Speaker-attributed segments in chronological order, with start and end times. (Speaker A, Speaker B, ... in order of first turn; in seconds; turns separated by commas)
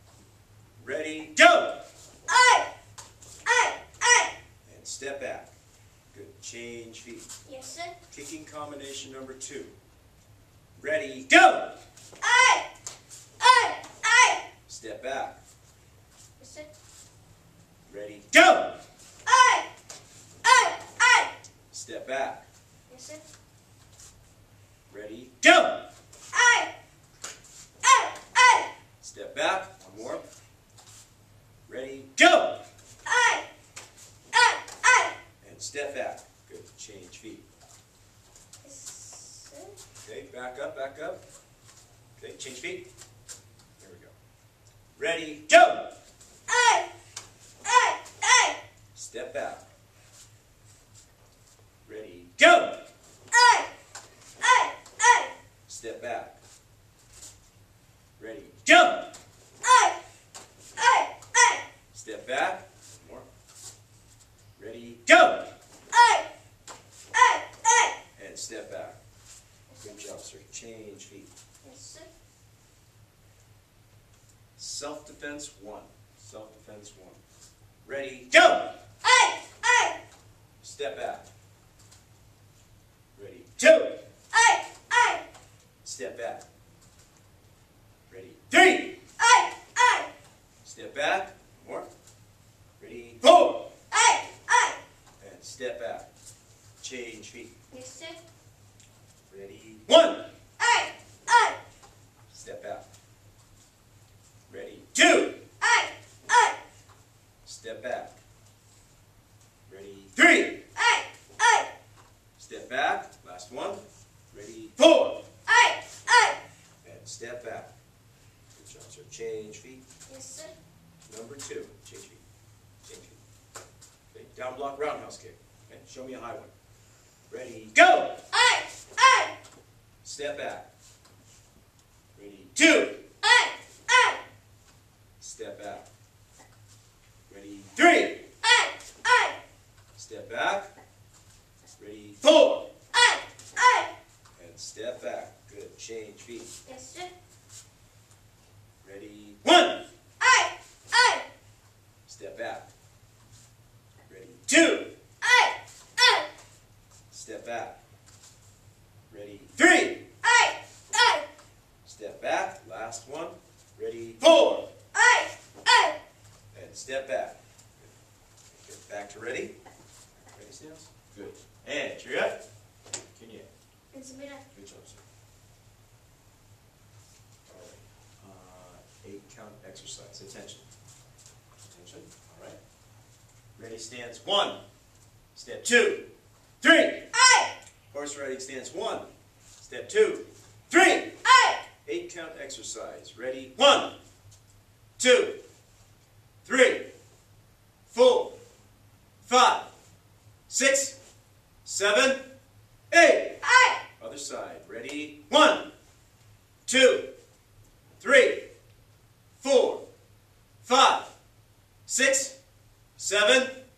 Speaker A: 0.8-1.8, Speaker B: 2.3-2.7, Speaker B: 3.5-4.3, Speaker A: 4.7-5.5, Speaker A: 6.1-7.3, Speaker B: 7.5-8.0, Speaker A: 8.1-9.8, Speaker A: 10.8-11.8, Speaker B: 12.2-12.7, Speaker B: 13.4-14.4, Speaker A: 14.7-15.4, Speaker B: 16.4-16.7, Speaker A: 17.9-18.8, Speaker B: 19.3-19.7, Speaker B: 20.4-21.3, Speaker A: 21.7-22.4, Speaker B: 22.9-23.2, Speaker A: 24.9-25.9, Speaker B: 26.3-26.7, Speaker B: 27.8-28.7, Speaker A: 29.0-30.2, Speaker A: 31.7-32.6, Speaker B: 33.0-33.5, Speaker B: 34.3-35.1, Speaker A: 35.4-37.5, Speaker B: 38.6-39.8, Speaker A: 40.0-41.2, Speaker A: 42.2-42.9, Speaker A: 43.8-44.1, Speaker A: 45.0-45.9, Speaker B: 46.5-46.9, Speaker B: 47.6-48.6, Speaker A: 49.0-49.7, Speaker A: 51.9-52.9, Speaker B: 53.3-53.7, Speaker B: 54.4-55.3, Speaker A: 55.7-56.4, Speaker A: 58.2-59.1, Speaker B: 59.6-60.0, Speaker B: 60.8-61.6, Speaker A: 61.9-63.3, Speaker A: 64.6-65.5, Speaker B: 65.9-66.3, Speaker B: 67.1-67.9, Speaker A: 68.2-69.0, Speaker B: 69.7-70.2, Speaker A: 69.8-71.3, Speaker B: 71.6-72.1, Speaker A: 74.6-77.2, Speaker A: 77.8-78.8, Speaker B: 79.0-80.0, Speaker A: 80.6-81.3, Speaker A: 83.2-84.0, Speaker B: 84.3-85.2, Speaker A: 85.8-86.4, Speaker A: 88.1-89.0, Speaker B: 89.2-90.1, Speaker A: 90.6-91.9, Speaker A: 92.8-93.7, Speaker B: 93.9-94.8, Speaker A: 95.2-96.1, Speaker A: 96.8-97.5, Speaker B: 97.7-98.2, Speaker A: 99.3-100.3, Speaker B: 100.6-101.6, Speaker A: 102.3-102.8, Speaker A: 104.5-105.4, Speaker B: 105.6-106.6, Speaker A: 107.5-108.2, Speaker A: 109.7-110.6, Speaker B: 110.8-111.7, Speaker A: 112.4-115.3, Speaker B: 115.5-116.4, Speaker A: 116.8-117.7, Speaker A: 118.5-119.8, Speaker B: 120.1-120.5, Speaker A: 121.0-122.2, Speaker A: 122.8-123.2, Speaker A: 124.1-126.5, Speaker A: 127.3-128.2, Speaker B: 128.3-129.3, Speaker A: 130.0-130.7, Speaker A: 132.2-133.0, Speaker B: 133.2-134.2, Speaker A: 135.2-135.9, Speaker A: 137.3-138.2, Speaker B: 138.4-139.4, Speaker A: 140.0-140.7, Speaker A: 141.8-142.7, Speaker B: 142.9-143.9, Speaker A: 144.4-146.5, Speaker B: 146.7-147.1, Speaker A: 148.8-149.8, Speaker B: 150.2-151.2, Speaker A: 152.1-152.7, Speaker A: 154.1-154.9, Speaker B: 155.2-156.3, Speaker A: 157.1-157.8, Speaker A: 159.1-160.1, Speaker B: 160.2-161.2, Speaker A: 161.8-164.7, Speaker B: 164.9-166.0, Speaker A: 166.5-167.9, Speaker A: 168.5-169.6, Speaker A: 170.3-172.4, Speaker A: 173.1-173.5, Speaker B: 173.9-174.4, Speaker A: 174.5-175.0, Speaker A: 177.5-180.7, Speaker A: 181.6-182.6, Speaker A: 183.6-184.6, Speaker A: 185.3-186.1, Speaker A: 186.6-187.1, Speaker B: 187.1-187.5, Speaker A: 187.9-191.2, Speaker B: 191.2-191.6, Speaker A: 191.8-193.9, Speaker A: 195.0-195.4, Speaker A: 196.4-196.9, Speaker A: 197.9-198.4, Speaker A: 199.2-199.7, Speaker A: 200.5-201.0, Speaker A: 201.7-202.2, Speaker A: 202.9-203.4, Speaker B: 203.4-203.8, Speaker A: 204.0-205.7, Speaker A: 206.7-207.1, Speaker A: 208.0-208.5, Speaker A: 209.4-209.8, Speaker A: 210.6-211.1, Speaker A: 211.9-212.4, Speaker A: 213.0-213.6